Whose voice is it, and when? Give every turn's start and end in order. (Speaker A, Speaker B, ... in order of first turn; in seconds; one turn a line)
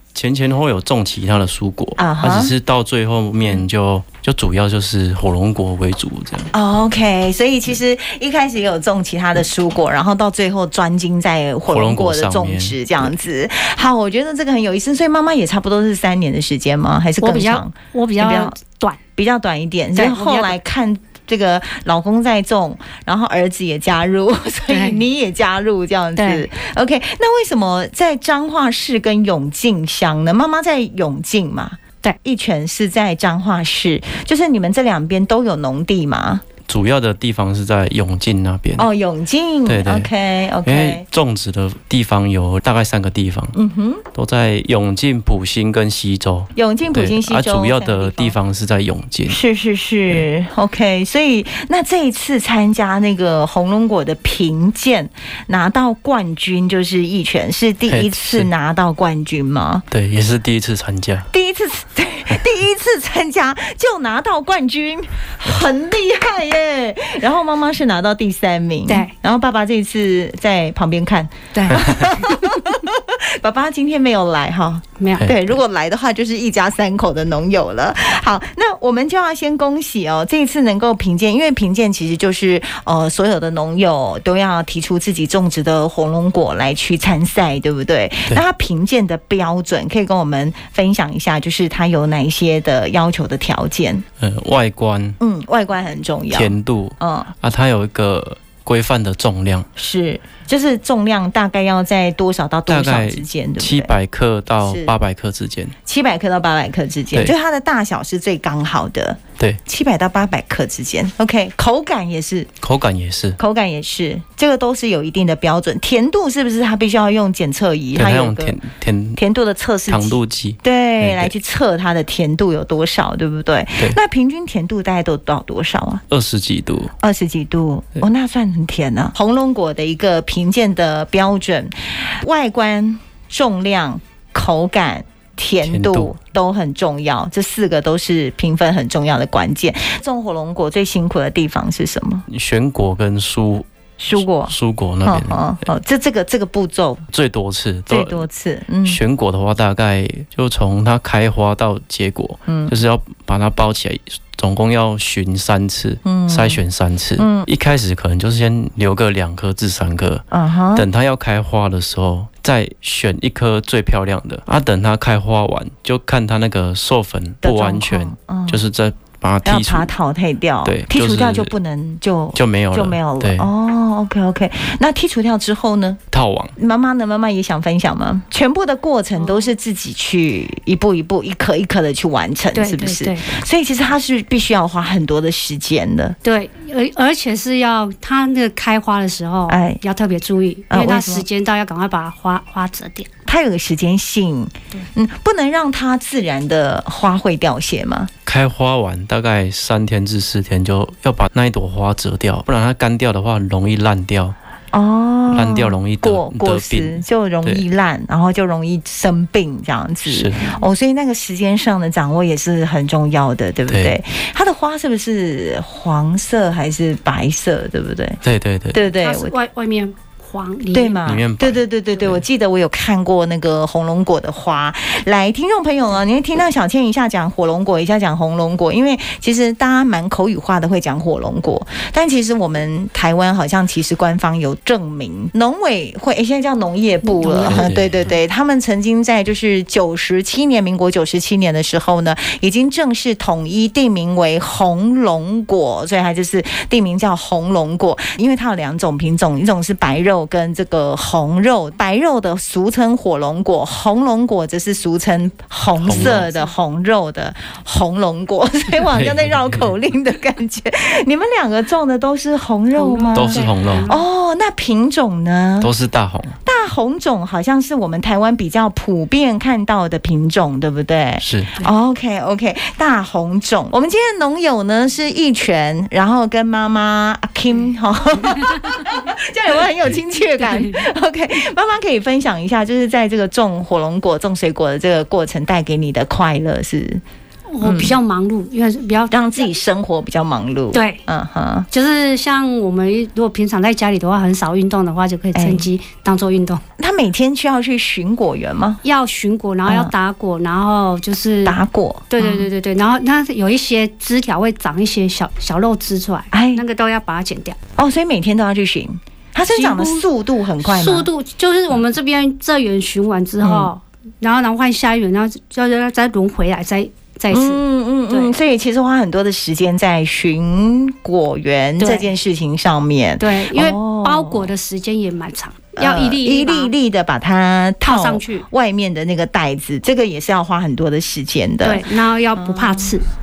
Speaker A: 0.1-6.5
Speaker B: 2.0-2.5
Speaker B: 6.5-18.6
Speaker A: 11.7-13.1
Speaker C: 17.2-19.0
Speaker B: 19.2-36.4
Speaker C: 19.9-20.6
Speaker C: 24.7-25.0
Speaker C: 26.2-26.5
Speaker A: 36.7-38.9
Speaker B: 38.8-41.0
Speaker A: 39.7-40.1
Speaker A: 40.6-43.6
Speaker B: 43.5-44.0
Speaker A: 44.1-49.4
Speaker B: 46.5-48.4
Speaker B: 49.3-59.9
Speaker A: 57.9-58.5
Speaker A: 59.9-61.3
Speaker B: 61.3-94.0
Speaker C: 71.5-72.5
Speaker A: 71.8-72.0
Speaker C: 75.0-75.3
Speaker A: 94.2-95.2
Speaker B: 95.2-97.3
Speaker A: 96.3-99.7
Speaker B: 99.8-103.9
Speaker A: 102.7-105.7
Speaker B: 104.6-104.9
Speaker B: 105.9-112.5
Speaker A: 112.6-113.4
Speaker B: 113.4-118.6
Speaker A: 118.0-119.2
Speaker B: 119.2-126.0
Speaker A: 119.9-121.3
Speaker A: 126.1-126.9
Speaker B: 127.0-142.2
Speaker A: 135.6-136.1
Speaker A: 142.3-145.7
Speaker B: 144.0-147.1
Speaker A: 147.1-148.3
Speaker B: 147.9-149.0
Speaker A: 148.8-160.2
Speaker B: 152.5-152.7
Speaker B: 156.1-156.6
Speaker B: 157.2-157.5
Speaker B: 160.3-160.9
Speaker A: 160.8-169.9
Speaker B: 167.4-168.6
Speaker B: 169.4-176.0
Speaker A: 170.7-171.6
Speaker A: 172.3-173.5
Speaker A: 176.1-176.5
Speaker B: 176.6-186.2
Speaker C: 179.2-179.5
Speaker C: 182.5-183.3
Speaker C: 186.2-193.1
Speaker B: 189.5-189.8
Speaker B: 190.7-191.3
Speaker B: 193.3-198.1
Speaker A: 198.3-204.3
Speaker B: 204.7-219.3
Speaker A: 205.3-207.6
Speaker A: 210.1-210.4
Speaker A: 213.7-214.0
Speaker A: 218.2-218.8
Speaker C: 218.9-221.2
Speaker B: 220.7-265.7
Speaker A: 221.1-222.2
Speaker C: 237.0-237.7
Speaker A: 237.4-238.1
Speaker A: 255.8-256.3
Speaker C: 256.1-256.5
Speaker A: 258.8-259.7
Speaker C: 262.7-264.0
Speaker A: 263.1-263.9
Speaker A: 265.6-266.4
Speaker B: 266.4-287.0
Speaker A: 271.2-271.6
Speaker C: 280.4-280.7
Speaker C: 287.5-289.1
Speaker B: 287.6-288.0
Speaker B: 289.1-291.7
Speaker C: 290.7-291.0
Speaker C: 291.7-296.6
Speaker B: 295.3-295.7
Speaker B: 296.8-298.8
Speaker C: 298.8-301.6
Speaker B: 299.7-299.9
Speaker B: 301.4-302.5
Speaker C: 302.1-307.6
Speaker B: 306.3-306.6
Speaker B: 307.8-311.1
Speaker C: 309.5-310.1
Speaker C: 310.6-318.4
Speaker B: 313.4-313.7
Speaker B: 317.3-324.5
Speaker C: 321.8-322.1
Speaker C: 323.2-326.7
Speaker B: 325.8-331.8
Speaker C: 327.8-328.4
Speaker C: 331.6-333.1
Speaker B: 332.4-333.0